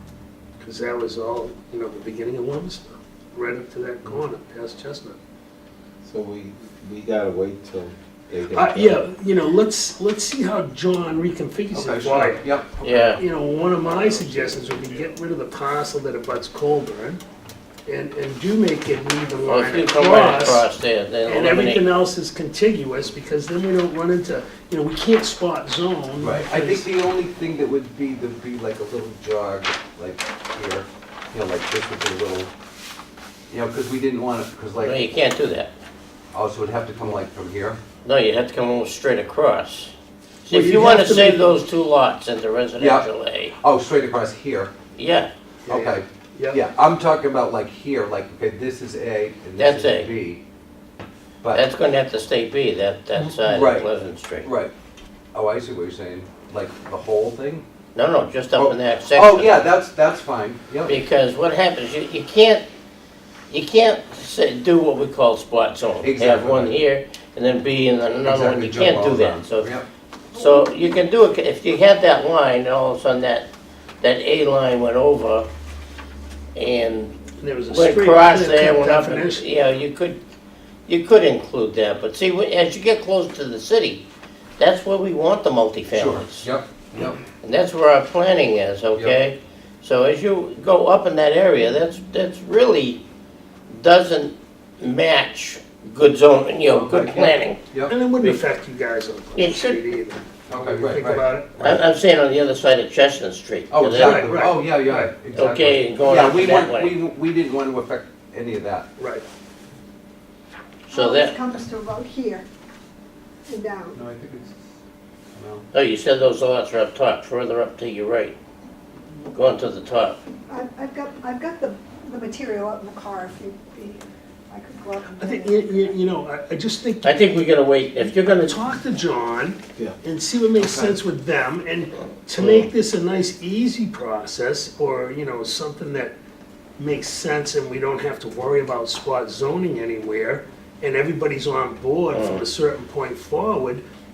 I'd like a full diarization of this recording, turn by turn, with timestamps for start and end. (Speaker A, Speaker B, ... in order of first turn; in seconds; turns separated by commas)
Speaker A: 0.6-5.2, Speaker B: 6.0-9.0, Speaker A: 8.5-17.2, Speaker C: 11.7-12.7, Speaker D: 12.8-13.2, Speaker B: 13.9-14.6, Speaker A: 17.9-20.7, Speaker D: 19.4-21.9, Speaker A: 21.2-26.9, Speaker C: 26.2-32.5, Speaker C: 33.5-35.0, Speaker D: 34.8-35.7, Speaker C: 36.3-37.8, Speaker D: 38.0-39.9, Speaker D: 40.4-43.5, Speaker A: 40.5-41.5, Speaker C: 42.8-43.1, Speaker C: 43.6-44.7, Speaker D: 44.9-45.3, Speaker A: 45.6-46.6, Speaker C: 45.7-50.4, Speaker D: 49.6-50.1, Speaker D: 51.5-54.5, Speaker C: 53.4-53.9, Speaker C: 54.4-54.7, Speaker C: 55.3-57.6, Speaker D: 57.9-59.6, Speaker C: 58.5-61.0, Speaker D: 60.9-62.6, Speaker D: 63.5-69.7, Speaker C: 66.0-66.8, Speaker C: 68.2-69.8, Speaker D: 70.3-73.5, Speaker E: 70.3-70.7, Speaker D: 74.0-75.5, Speaker D: 76.5-77.1, Speaker A: 77.4-79.5, Speaker D: 77.7-80.2, Speaker D: 80.9-84.0, Speaker D: 84.6-86.5, Speaker C: 85.9-87.2, Speaker D: 87.4-93.0, Speaker C: 88.9-89.2, Speaker D: 93.7-97.7, Speaker C: 96.7-97.9, Speaker A: 97.9-101.7, Speaker D: 99.3-99.8, Speaker C: 100.5-101.8, Speaker D: 101.6-104.3, Speaker C: 103.7-108.9, Speaker A: 104.0-105.2, Speaker D: 105.3-107.0, Speaker A: 109.0-109.2, Speaker D: 110.9-111.4, Speaker E: 110.9-112.4, Speaker E: 113.5-114.0, Speaker C: 113.9-114.6, Speaker C: 115.3-115.7, Speaker D: 115.7-118.3, Speaker D: 119.3-120.2, Speaker E: 120.5-124.0, Speaker E: 124.5-126.0, Speaker A: 125.2-136.2, Speaker D: 127.0-128.6, Speaker C: 130.6-130.9, Speaker D: 132.4-132.7, Speaker A: 136.8-143.8, Speaker D: 142.1-142.4